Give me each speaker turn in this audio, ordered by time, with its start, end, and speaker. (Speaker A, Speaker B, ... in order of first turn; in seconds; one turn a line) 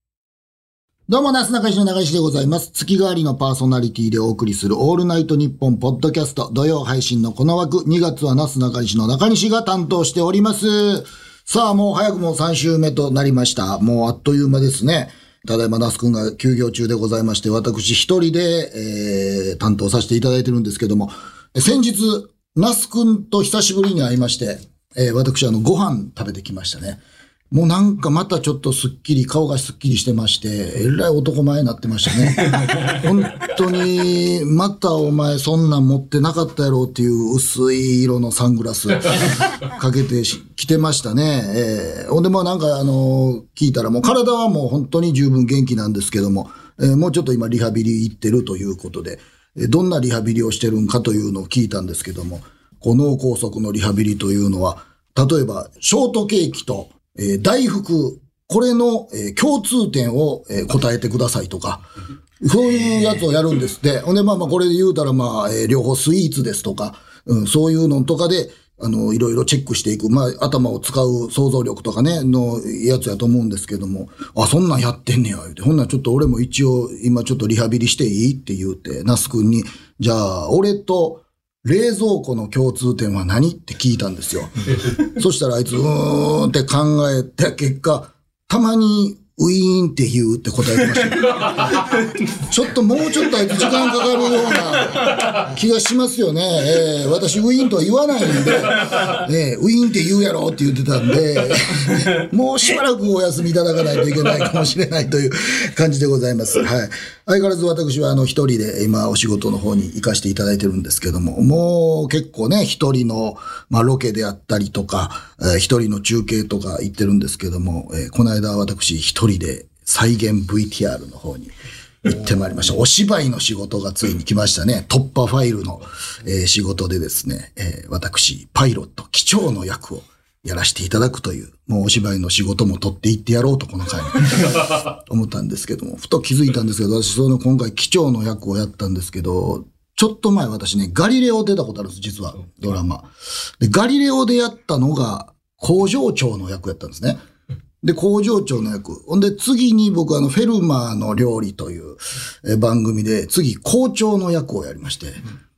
Speaker A: 1.1-61.8
Speaker A: 62.4-121.5
Speaker A: 122.0-143.1
Speaker A: 143.6-147.2
Speaker A: 147.8-155.2